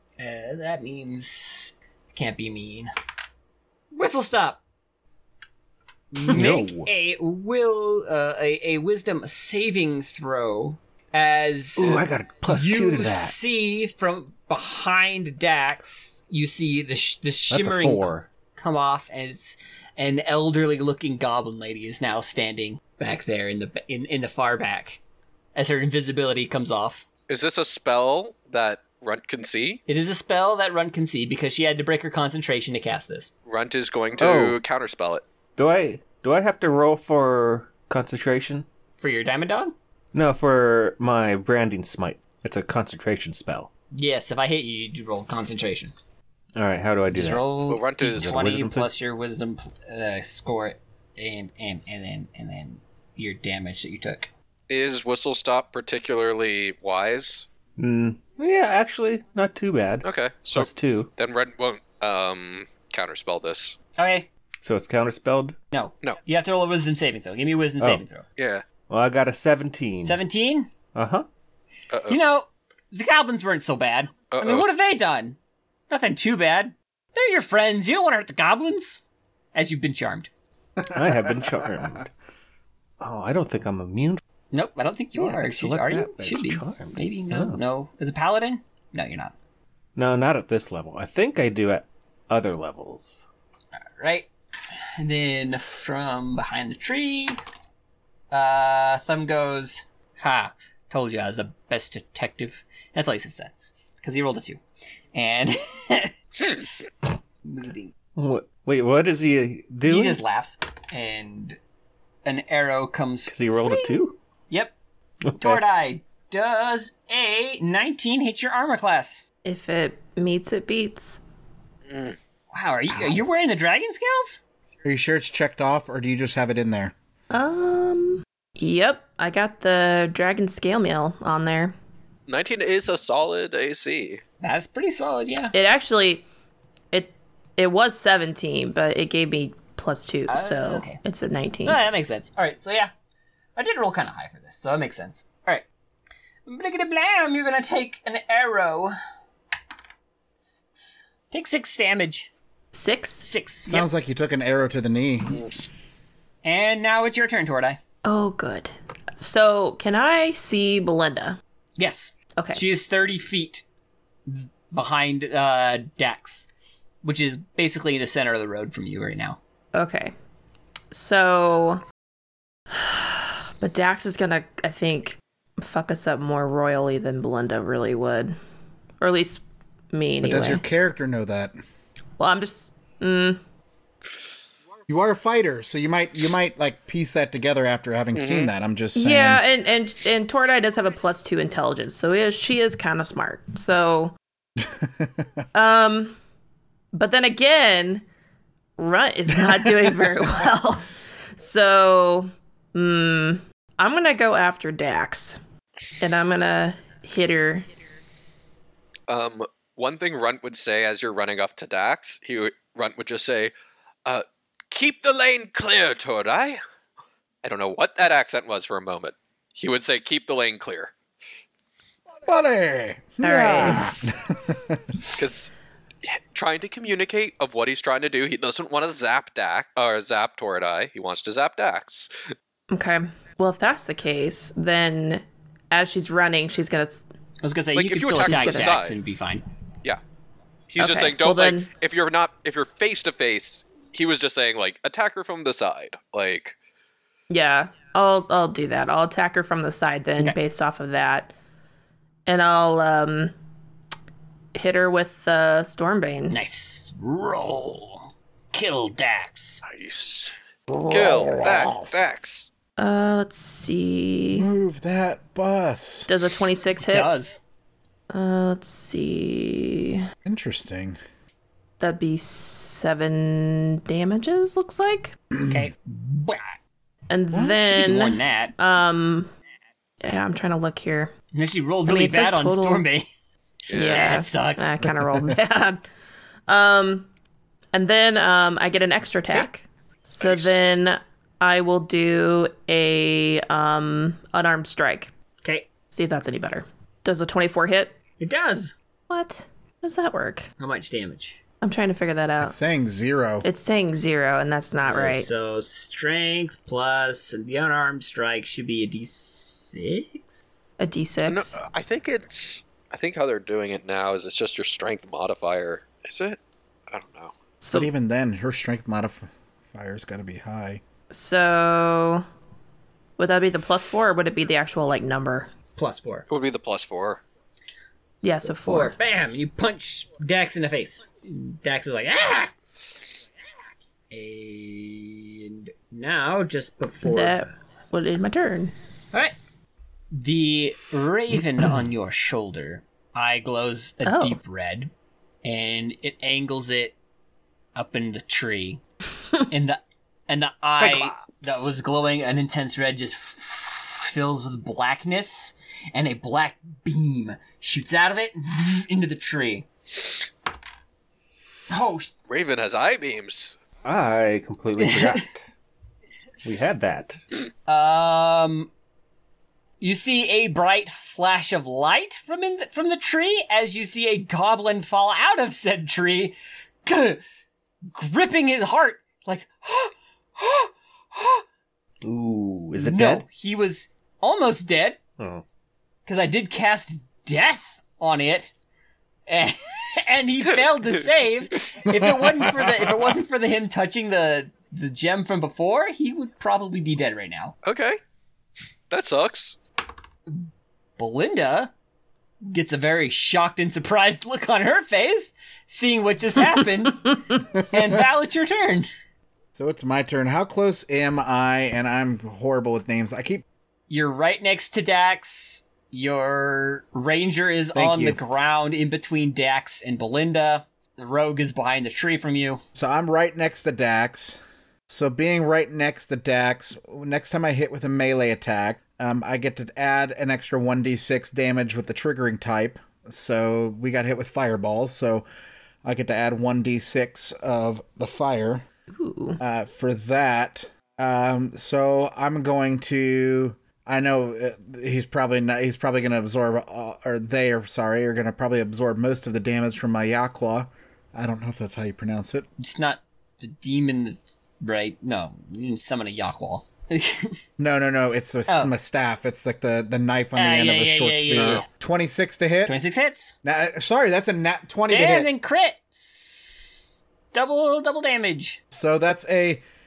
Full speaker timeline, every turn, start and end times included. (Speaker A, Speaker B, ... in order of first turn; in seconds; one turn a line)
Speaker A: 0.2-2.9
Speaker A: 3.9-4.6
Speaker A: 6.1-25.0
Speaker B: 6.3-6.9
Speaker B: 11.8-13.4
Speaker B: 17.5-18.3
Speaker A: 25.6-27.1
Speaker C: 27.3-29.8
Speaker A: 29.9-33.3
Speaker C: 33.5-35.2
Speaker B: 34.2-34.6
Speaker B: 35.6-38.7
Speaker A: 39.0-39.8
Speaker B: 40.1-43.7
Speaker A: 43.9-45.9
Speaker B: 46.6-48.9
Speaker A: 47.1-54.3
Speaker C: 47.7-48.4
Speaker C: 54.7-57.5
Speaker B: 57.8-61.1
Speaker C: 60.0-63.8
Speaker A: 64.0-64.3
Speaker B: 64.6-65.6
Speaker A: 65.7-68.2
Speaker C: 68.4-68.6
Speaker B: 68.9-70.2
Speaker A: 70.0-70.7
Speaker B: 71.0-71.3
Speaker C: 71.9-72.2
Speaker A: 72.1-75.4
Speaker C: 74.3-74.7
Speaker A: 75.9-79.0
Speaker A: 79.5-80.3
Speaker D: 80.8-82.0
Speaker B: 80.9-82.1
Speaker B: 83.0-84.2
Speaker A: 84.5-89.3
Speaker B: 85.2-87.6
Speaker B: 90.0-93.2
Speaker A: 94.0-94.3
Speaker A: 95.0-97.4
Speaker A: 98.3-104.6
Speaker A: 105.1-106.6
Speaker A: 107.4-107.9
Speaker B: 108.2-110.2
Speaker A: 109.8-111.6
Speaker A: 112.2-114.8
Speaker B: 113.3-114.2
Speaker B: 115.3-115.6
Speaker A: 115.4-119.2
Speaker E: 119.5-121.2
Speaker C: 121.9-122.2
Speaker A: 122.5-124.4
Speaker D: 123.0-123.2
Speaker D: 124.8-127.0
Speaker E: 127.3-131.8
Speaker C: 132.3-134.2
Speaker A: 134.4-135.5
Speaker E: 135.5-136.3
Speaker E: 136.9-141.9
Speaker A: 140.3-141.0
Speaker A: 141.7-142.9
Speaker A: 143.6-145.7
Speaker A: 146.5-148.9
Speaker A: 150.4-152.3
Speaker E: 152.7-153.3
Speaker A: 153.2-153.9
Speaker D: 153.7-155.5
Speaker A: 156.4-157.8
Speaker E: 158.0-161.4
Speaker A: 161.8-163.6
Speaker E: 162.4-162.6
Speaker A: 164.3-166.5
Speaker A: 167.0-169.4
Speaker E: 169.8-170.1
Speaker E: 170.9-171.8
Speaker E: 172.7-178.3
Speaker E: 179.0-180.6
Speaker D: 180.2-181.6
Speaker E: 182.2-183.4
Speaker D: 184.9-189.4
Speaker C: 188.1-188.5
Speaker E: 188.9-194.2
Speaker D: 194.6-195.3
Speaker E: 195.5-196.2
Speaker E: 196.9-198.0
Speaker E: 198.8-205.4
Speaker D: 199.6-200.0
Speaker E: 206.0-207.7
Speaker C: 209.1-213.5
Speaker C: 214.1-216.6
Speaker C: 217.4-220.9
Speaker D: 222.3-225.0
Speaker E: 223.2-224.0
Speaker C: 225.1-225.5
Speaker C: 226.0-232.3
Speaker E: 232.7-237.1
Speaker A: 237.4-239.4
Speaker C: 237.8-239.0
Speaker E: 238.2-238.8
Speaker C: 240.7-246.6
Speaker E: 240.8-241.7
Speaker E: 247.3-251.3
Speaker E: 252.3-253.3
Speaker E: 254.6-256.4
Speaker A: 256.3-259.6
Speaker C: 259.7-260.4
Speaker D: 260.7-261.9
Speaker C: 260.9-262.5
Speaker E: 262.8-264.5
Speaker D: 264.4-266.1
Speaker E: 266.1-267.1
Speaker A: 266.8-267.4
Speaker E: 268.1-270.1
Speaker D: 270.2-271.0
Speaker E: 271.8-275.1
Speaker D: 275.4-275.6
Speaker A: 275.4-276.6
Speaker E: 277.1-279.3
Speaker A: 277.5-278.5
Speaker E: 280.0-281.1
Speaker A: 281.3-283.1
Speaker E: 281.9-282.9
Speaker C: 283.7-284.1
Speaker E: 283.7-285.8
Speaker A: 283.7-284.8
Speaker E: 286.5-287.1
Speaker E: 287.7-295.1
Speaker C: 290.2-290.6
Speaker A: 295.4-295.7
Speaker E: 295.9-298.0
Speaker A: 298.2-298.7
Speaker E: 299.1-300.5
Speaker A: 300.6-301.4
Speaker E: 301.6-302.6
Speaker D: 302.4-303.5
Speaker E: 303.4-305.3
Speaker A: 304.8-310.7
Speaker E: 310.8-311.6
Speaker C: 311.3-316.4
Speaker C: 316.9-317.3
Speaker E: 317.6-317.9
Speaker D: 317.7-320.8
Speaker E: 321.1-322.2
Speaker E: 323.2-325.5
Speaker A: 325.8-326.3
Speaker C: 326.3-327.2
Speaker A: 328.2-332.5
Speaker E: 328.2-329.0
Speaker A: 334.1-337.5
Speaker E: 337.0-338.7
Speaker A: 340.1-344.9
Speaker E: 344.0-344.4
Speaker A: 345.4-347.0
Speaker A: 347.8-348.8
Speaker A: 349.5-359.7
Speaker C: 350.8-351.2
Speaker A: 361.7-362.1
Speaker C: 362.3-363.6
Speaker B: 363.8-365.5
Speaker A: 364.8-365.2
Speaker B: 366.4-367.2
Speaker A: 367.7-368.7
Speaker A: 369.8-377.2
Speaker A: 377.9-381.4
Speaker B: 382.0-383.3
Speaker A: 382.7-385.0
Speaker B: 385.2-385.4
Speaker A: 386.1-388.5
Speaker A: 389.3-397.6
Speaker D: 392.0-392.7
Speaker C: 397.6-398.0
Speaker C: 398.9-399.6
Speaker A: 400.3-401.7
Speaker A: 402.4-408.9
Speaker D: 409.6-413.4
Speaker A: 413.9-422.6
Speaker D: 417.7-418.2
Speaker D: 422.8-435.2
Speaker D: 435.8-438.6
Speaker E: 438.9-439.4
Speaker D: 439.4-452.5
Speaker A: 452.6-457.4
Speaker D: 457.6-462.8
Speaker A: 458.5-458.7
Speaker A: 460.4-461.7
Speaker C: 461.4-461.6
Speaker A: 462.7-463.4
Speaker D: 463.4-465.3
Speaker A: 464.9-468.6
Speaker D: 468.7-469.6